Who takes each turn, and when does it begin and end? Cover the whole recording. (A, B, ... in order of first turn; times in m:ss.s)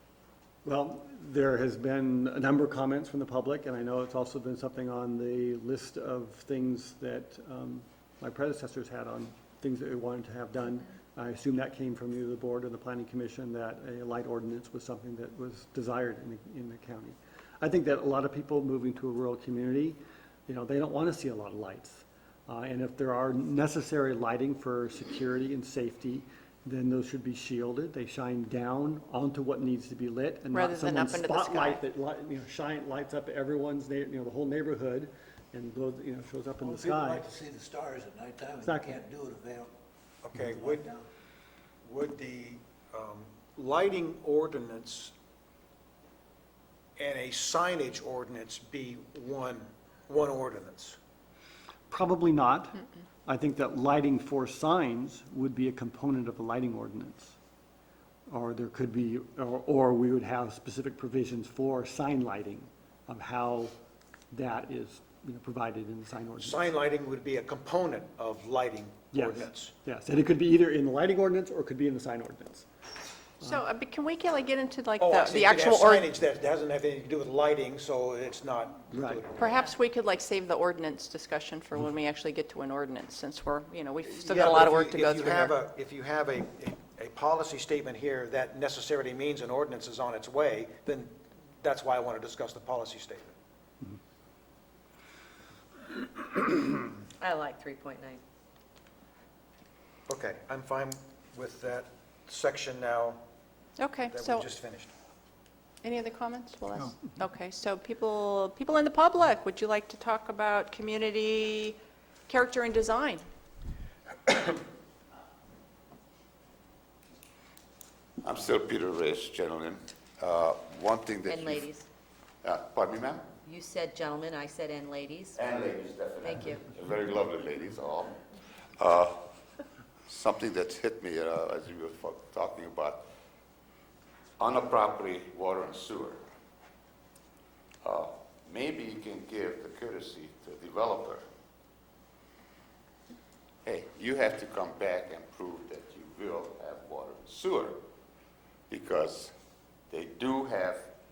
0:00.6-0:37.2 A
0:30.5-0:31.8 B
0:36.6-0:39.7 C
0:38.6-0:39.0 A
0:40.2-0:40.9 D
0:40.4-0:41.0 C
0:41.8-0:45.1 D
0:47.0-0:51.0 D
0:51.9-0:57.4 A
0:58.3-1:03.7 A
1:04.3-1:06.6 A
1:06.4-1:09.7 D
1:09.1-1:12.7 A
1:13.4-1:16.1 B
1:15.0-1:19.7 D
1:18.9-1:19.2 A
1:19.4-1:25.6 B
1:24.2-1:33.3 D
1:37.2-1:38.2 E
1:40.1-1:43.2 D
1:43.8-1:44.5 B
1:44.1-1:44.9 D
1:45.8-1:51.8 B
1:52.3-1:53.2 B
1:58.2-2:01.7 F
2:01.3-2:01.9 E
2:02.4-2:03.3 F
2:03.4-2:05.4 E
2:05.4-2:08.2 F
2:06.2-2:06.6 E
2:08.8-2:09.2 F
2:10.1-2:13.1 F
2:14.4-2:16.2 F
2:17.8-2:21.2 F
2:23.6-2:27.8 F
2:28.7-2:29.3 F
2:29.9-2:30.9 F